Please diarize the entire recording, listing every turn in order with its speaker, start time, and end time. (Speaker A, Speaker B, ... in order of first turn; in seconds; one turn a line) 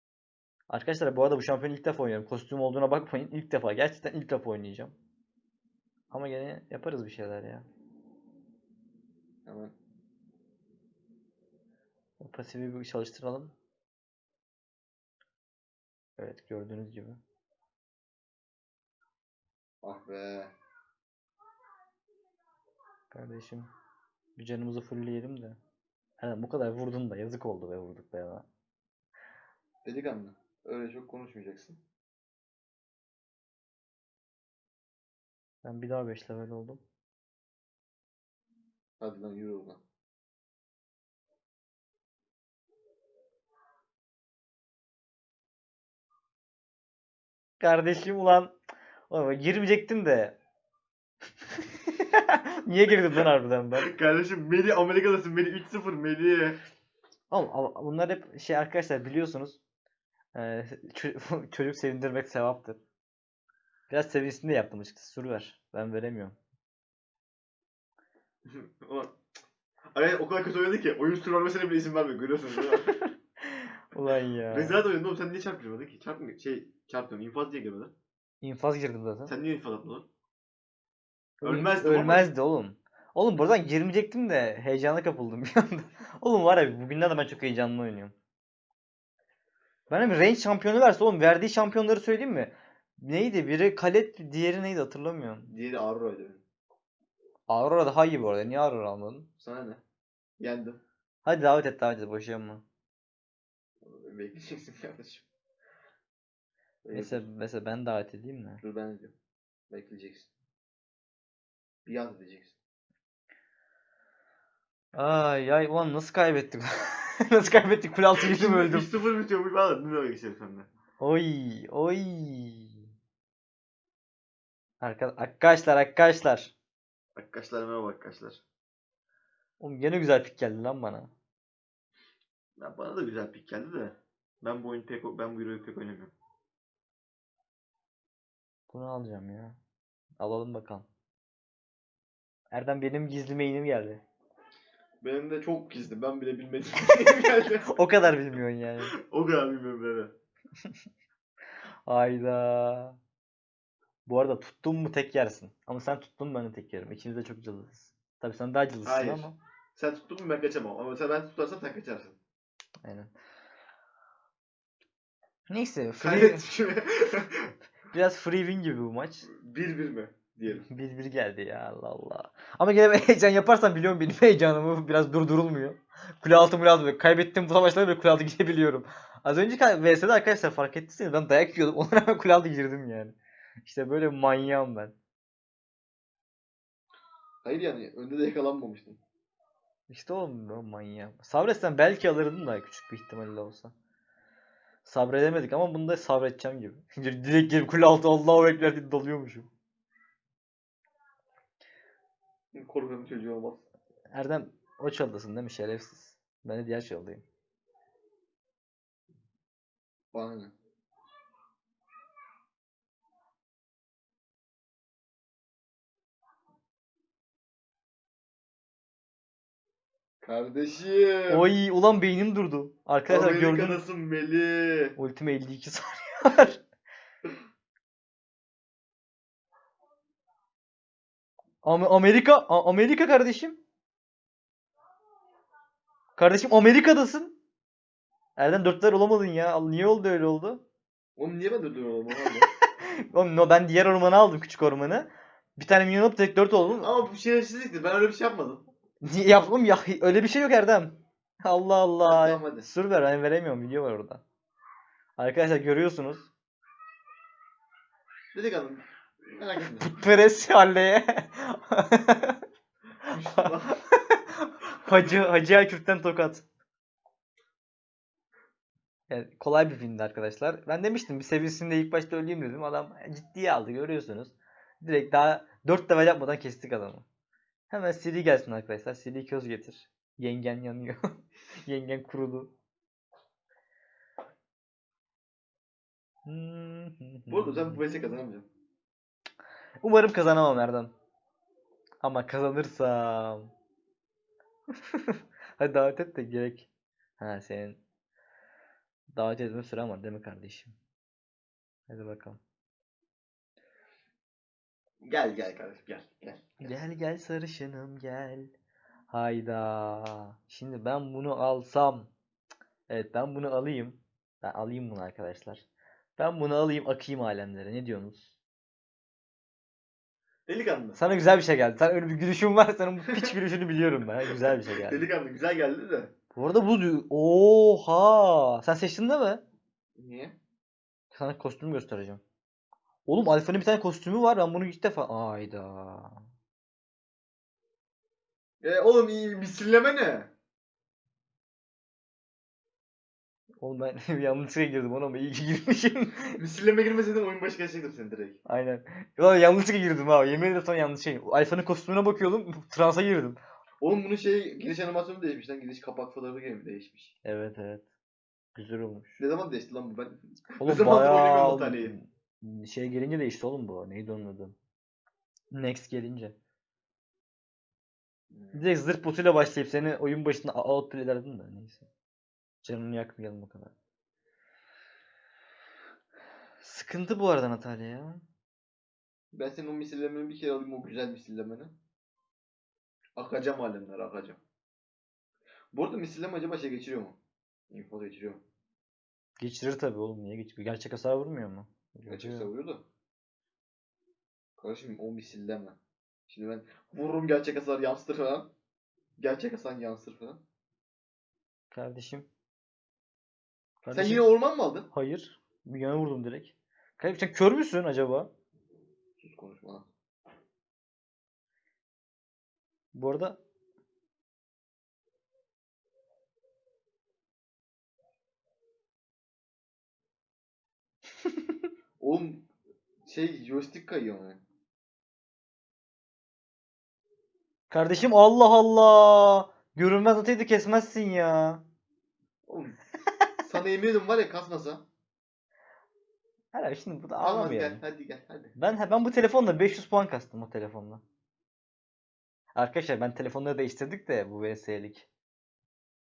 Speaker A: 0.7-5.0
Speaker A: 6.1-7.7
Speaker B: 9.4-9.7
Speaker A: 12.2-13.5
Speaker A: 16.2-17.2
Speaker B: 19.8-20.5
Speaker A: 23.1-23.7
Speaker A: 24.4-25.6
Speaker A: 26.2-28.5
Speaker B: 29.9-31.8
Speaker A: 35.6-36.8
Speaker B: 39.0-39.8
Speaker A: 47.6-48.5
Speaker A: 49.1-50.4
Speaker A: 51.9-53.9
Speaker B: 53.8-56.6
Speaker A: 57.3-59.6
Speaker A: 60.4-62.8
Speaker A: 63.9-66.4
Speaker B: 68.5-69.1
Speaker B: 69.9-72.9
Speaker A: 72.9-74.8
Speaker B: 74.5-77.9
Speaker A: 78.4-79.3
Speaker B: 79.3-80.1
Speaker A: 81.4-88.2
Speaker B: 81.4-82.3
Speaker A: 89.9-95.5
Speaker B: 95.5-96.4
Speaker A: 97.5-99.3
Speaker B: 99.4-99.8
Speaker B: 100.4-100.8
Speaker A: 101.2-102.6
Speaker B: 103.8-105.3
Speaker B: 106.8-107.2
Speaker A: 106.9-108.6
Speaker B: 108.6-109.2
Speaker B: 109.7-110.3
Speaker B: 111.8-112.6
Speaker A: 115.0-118.9
Speaker B: 118.2-120.7
Speaker A: 121.0-122.9
Speaker A: 124.8-126.5
Speaker B: 127.2-128.4
Speaker A: 129.6-131.1
Speaker B: 132.6-136.1
Speaker A: 138.7-139.6
Speaker A: 140.2-140.9
Speaker A: 142.5-144.0
Speaker B: 145.0-147.7
Speaker A: 147.7-148.9
Speaker B: 148.9-150.1
Speaker A: 151.9-153.0
Speaker A: 154.1-159.4
Speaker B: 158.8-162.2
Speaker A: 162.8-163.1
Speaker A: 165.5-166.5
Speaker B: 166.0-167.5
Speaker A: 167.9-169.3
Speaker B: 169.2-170.7
Speaker A: 170.5-184.9
Speaker B: 187.4-189.0
Speaker A: 189.9-193.7
Speaker A: 194.8-199.5
Speaker B: 202.5-203.6
Speaker A: 204.1-207.2
Speaker B: 210.1-210.5
Speaker B: 220.2-221.5
Speaker A: 221.3-223.8
Speaker B: 223.1-225.0
Speaker A: 225.0-226.6
Speaker A: 231.6-233.6
Speaker A: 236.2-237.3
Speaker A: 238.4-240.6
Speaker B: 241.2-242.5
Speaker A: 242.6-247.0
Speaker B: 246.8-248.6
Speaker A: 249.0-254.2
Speaker B: 252.1-252.7
Speaker A: 255.2-256.3
Speaker B: 258.3-259.9
Speaker A: 259.7-262.4
Speaker B: 263.1-263.8
Speaker A: 263.3-266.4
Speaker A: 269.1-277.1
Speaker A: 277.7-281.0
Speaker A: 281.6-282.5
Speaker A: 286.3-287.8
Speaker B: 287.3-288.5
Speaker A: 289.8-290.9
Speaker A: 292.0-293.5
Speaker A: 295.6-297.8
Speaker A: 299.1-300.8
Speaker A: 301.9-302.4
Speaker B: 305.0-306.7
Speaker A: 306.6-308.5
Speaker A: 309.1-312.1
Speaker A: 312.9-315.6
Speaker A: 316.2-318.3
Speaker B: 320.5-321.0
Speaker A: 321.0-325.1
Speaker B: 324.4-326.1
Speaker A: 326.3-329.4
Speaker B: 330.0-330.4
Speaker A: 331.1-332.2
Speaker A: 333.1-336.2
Speaker B: 338.6-340.3
Speaker A: 343.6-346.3
Speaker B: 346.4-348.4
Speaker A: 348.5-353.4
Speaker B: 353.8-357.1
Speaker A: 357.2-357.9
Speaker A: 358.6-359.1
Speaker B: 359.1-362.0
Speaker A: 360.6-364.6
Speaker A: 365.5-366.4
Speaker B: 368.3-368.7
Speaker A: 368.5-371.9
Speaker A: 372.6-373.7
Speaker A: 376.6-378.2
Speaker B: 379.3-381.7
Speaker B: 383.2-384.4
Speaker B: 385.7-387.2
Speaker B: 387.7-388.4
Speaker A: 389.4-392.5
Speaker B: 392.1-392.8
Speaker B: 394.6-395.8
Speaker B: 396.3-398.5
Speaker B: 399.2-400.4
Speaker A: 401.7-402.3
Speaker A: 403.8-404.3
Speaker B: 403.9-404.9
Speaker A: 404.9-408.3
Speaker B: 409.2-409.9
Speaker A: 412.9-413.4
Speaker B: 422.0-422.5
Speaker B: 423.1-424.4
Speaker A: 427.7-431.6
Speaker B: 432.5-432.8
Speaker B: 433.4-434.9
Speaker A: 436.5-437.8
Speaker B: 437.2-438.5
Speaker A: 438.6-441.0
Speaker A: 442.6-445.1